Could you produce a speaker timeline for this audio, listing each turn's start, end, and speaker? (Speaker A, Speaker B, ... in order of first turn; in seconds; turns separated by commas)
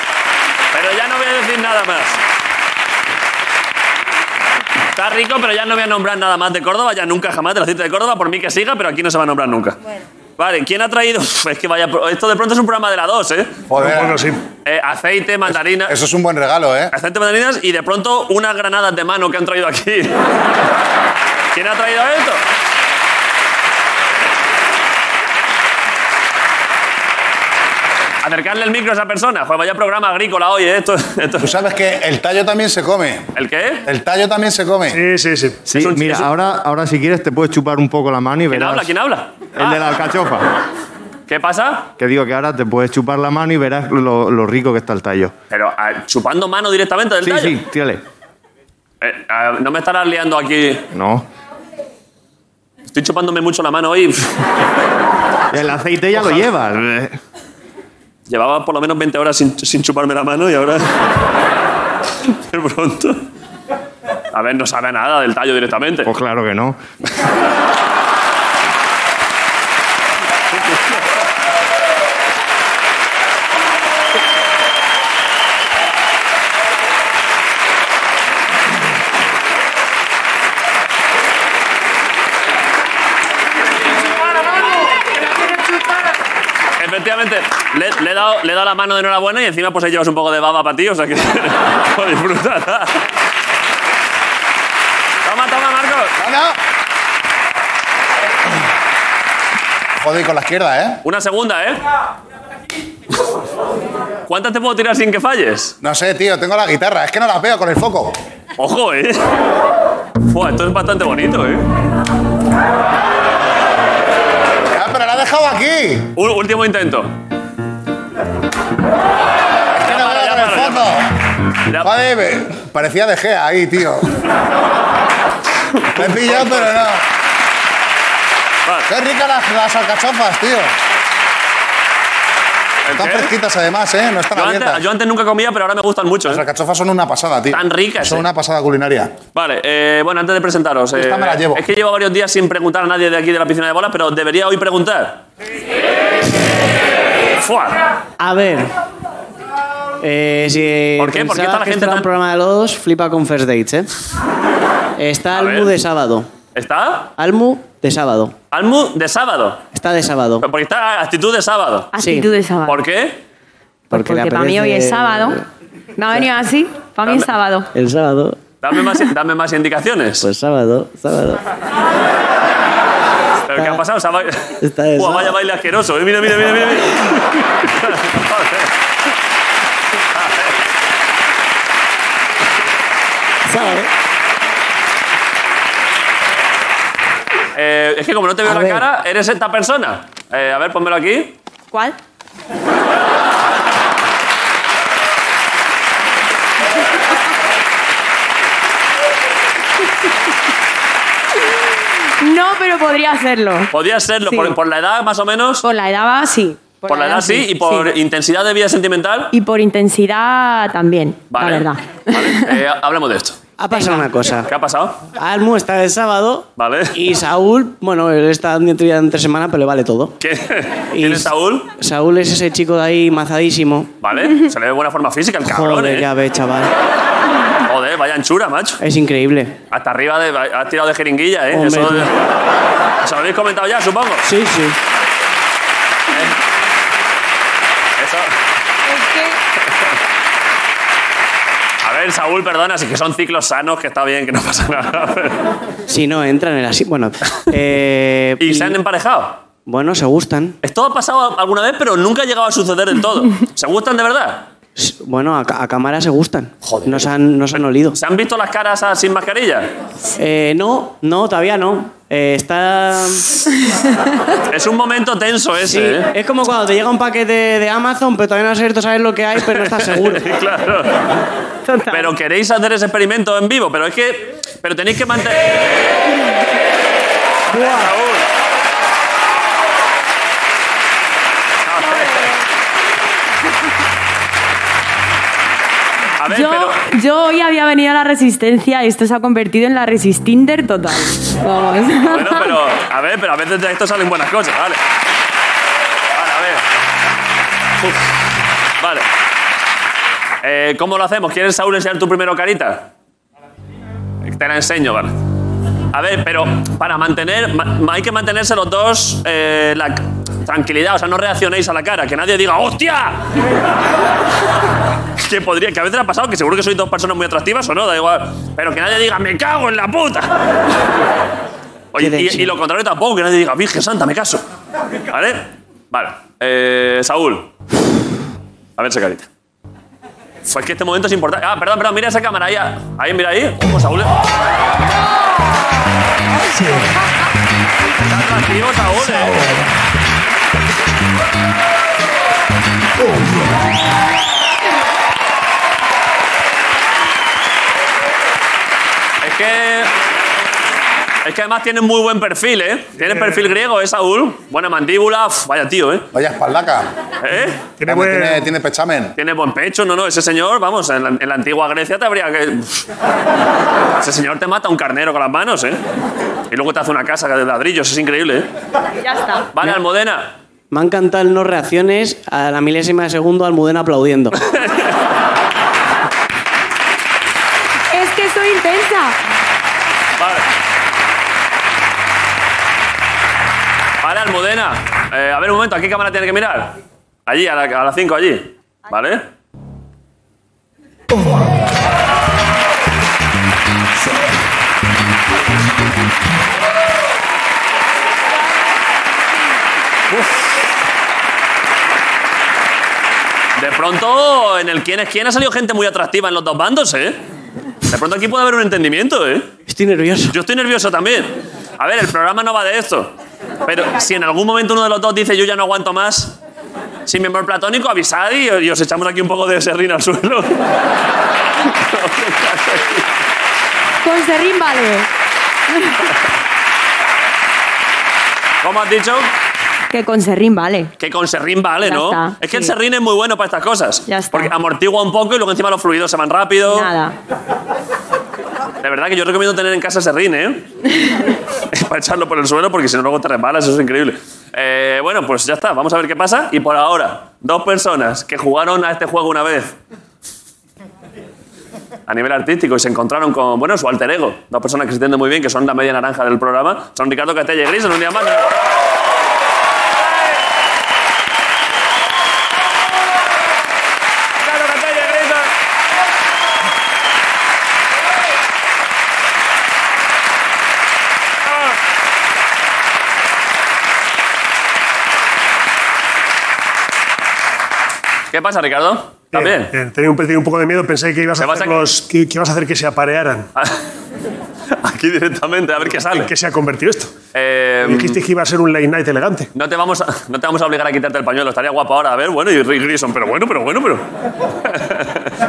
Speaker A: 0.7-2.2, Speaker A: 5.0-9.8, Speaker A: 10.4-13.6, Speaker B: 13.7-14.2, Speaker C: 13.8-14.4, Speaker A: 14.7-16.0, Speaker B: 15.7-16.9, Speaker A: 16.9-20.2, Speaker A: 21.5-22.4, Speaker A: 28.2-31.5, Speaker B: 31.4-33.3, Speaker A: 33.4-33.8, Speaker B: 33.9-35.0, Speaker C: 34.9-35.6, Speaker D: 35.7-38.9, Speaker A: 35.7-36.3, Speaker A: 38.5-39.8, Speaker D: 39.5-40.5, Speaker A: 41.3-41.9, Speaker D: 42.0-45.3, Speaker A: 45.5-47.6, Speaker D: 47.2-48.0, Speaker A: 49.0-50.9, Speaker D: 50.9-51.2, Speaker A: 52.9-54.4, Speaker D: 55.5-57.1, Speaker A: 58.3-60.9, Speaker A: 62.3-63.2, Speaker A: 64.3-66.1, Speaker D: 66.1-66.8, Speaker A: 86.8-93.0, Speaker A: 95.2-96.2, Speaker B: 96.2-96.6, Speaker B: 100.0-101.0, Speaker A: 101.0-101.8, Speaker A: 104.3-105.8, Speaker B: 105.8-108.2, Speaker A: 108.6-109.2, Speaker A: 110.3-111.7, Speaker B: 114.7-116.1, Speaker A: 116.2-117.1, Speaker B: 119.7-121.1, Speaker A: 119.8-120.9, Speaker B: 121.8-124.2, Speaker A: 125.7-126.8, Speaker B: 126.0-127.0, Speaker A: 128.7-128.9, Speaker B: 128.9-130.7, Speaker A: 132.8-133.3, Speaker B: 132.9-134.8, Speaker A: 134.3-136.4, Speaker B: 136.2-139.2, Speaker A: 137.5-138.2, Speaker A: 139.3-145.2, Speaker B: 140.9-141.7, Speaker A: 147.4-147.8, Speaker E: 148.2-148.7, Speaker E: 150.0-153.9, Speaker A: 151.0-152.1, Speaker E: 155.0-156.3, Speaker A: 155.3-155.7, Speaker A: 156.6-157.1, Speaker E: 157.2-158.3, Speaker A: 158.5-159.6, Speaker E: 159.7-160.4, Speaker A: 160.4-161.9, Speaker F: 161.9-162.8, Speaker E: 162.0-162.3, Speaker A: 162.7-163.2, Speaker E: 163.9-165.4, Speaker F: 163.9-165.4, Speaker F: 166.0-167.7, Speaker A: 167.0-167.3, Speaker E: 167.7-168.4, Speaker A: 168.6-170.3, Speaker E: 170.2-171.4, Speaker A: 173.5-178.7, Speaker E: 174.6-175.3, Speaker A: 180.1-180.6, Speaker A: 187.6-191.3, Speaker F: 202.2-203.7, Speaker A: 203.7-205.6, Speaker F: 204.3-204.6, Speaker F: 205.6-207.9, Speaker A: 206.9-209.3, Speaker F: 209.3-212.6, Speaker A: 211.3-213.4, Speaker E: 213.6-214.5, Speaker F: 213.7-214.1, Speaker A: 214.5-215.0, Speaker E: 215.2-220.2, Speaker A: 216.6-216.9, Speaker A: 220.2-221.7, Speaker E: 220.9-223.9, Speaker A: 224.0-226.1, Speaker E: 225.5-226.7, Speaker A: 227.7-228.8, Speaker E: 228.8-229.6, Speaker A: 229.7-232.2, Speaker E: 231.5-232.1, Speaker A: 233.0-234.3, Speaker E: 234.2-234.8, Speaker A: 238.0-238.3, Speaker F: 238.9-239.4, Speaker A: 241.8-245.5, Speaker E: 245.9-248.8, Speaker A: 248.4-249.4, Speaker E: 249.7-250.6, Speaker A: 250.6-254.5, Speaker E: 254.8-258.0, Speaker A: 256.6-259.7, Speaker E: 260.2-263.4, Speaker A: 264.5-266.1, Speaker E: 265.6-270.3, Speaker A: 269.5-271.1, Speaker A: 271.9-275.5, Speaker A: 277.5-278.2, Speaker A: 281.6-282.3, Speaker A: 286.2-286.8, Speaker F: 286.3-292.6, Speaker A: 292.0-294.8, Speaker A: 296.1-296.6, Speaker A: 298.8-299.1, Speaker A: 300.4-302.9, Speaker A: 304.2-305.2, Speaker A: 305.9-313.2, Speaker A: 315.2-320.3, Speaker A: 321.9-324.4, Speaker E: 322.0-322.5, Speaker A: 325.1-327.5, Speaker A: 328.8-329.3, Speaker A: 330.4-334.1, Speaker A: 338.0-339.5, Speaker A: 349.2-349.9, Speaker A: 351.2-356.1, Speaker B: 356.1-356.9, Speaker A: 357.2-357.6, Speaker C: 357.8-358.5, Speaker B: 357.9-359.1, Speaker A: 359.2-362.9, Speaker A: 364.0-365.8, Speaker A: 366.5-368.5, Speaker F: 369.0-369.5, Speaker A: 369.5-370.4, Speaker E: 370.7-374.4, Speaker A: 374.4-374.9, Speaker F: 377.9-379.2, Speaker A: 380.2-380.5, Speaker A: 384.0-389.3, Speaker A: 403.6-407.2, Speaker A: 407.9-409.5, Speaker E: 409.7-410.3, Speaker A: 410.3-416.4, Speaker A: 417.1-420.7, Speaker A: 421.6-423.1, Speaker F: 424.0-425.1, Speaker F: 425.7-426.0, Speaker A: 428.6-429.3, Speaker F: 429.9-430.9, Speaker A: 431.0-436.9, Speaker F: 431.8-432.7, Speaker F: 434.1-434.5, Speaker F: 436.7-437.2, Speaker A: 438.8-440.7, Speaker A: 441.7-449.8, Speaker A: 452.1-458.6, Speaker A: 464.4-465.5, Speaker A: 478.3-479.7, Speaker C: 479.3-483.5, Speaker A: 481.4-481.8, Speaker A: 483.6-483.8, Speaker A: 484.7-486.3, Speaker C: 486.0-487.1, Speaker A: 487.3-488.2, Speaker C: 487.8-489.5, Speaker A: 489.6-494.1, Speaker A: 494.6-495.3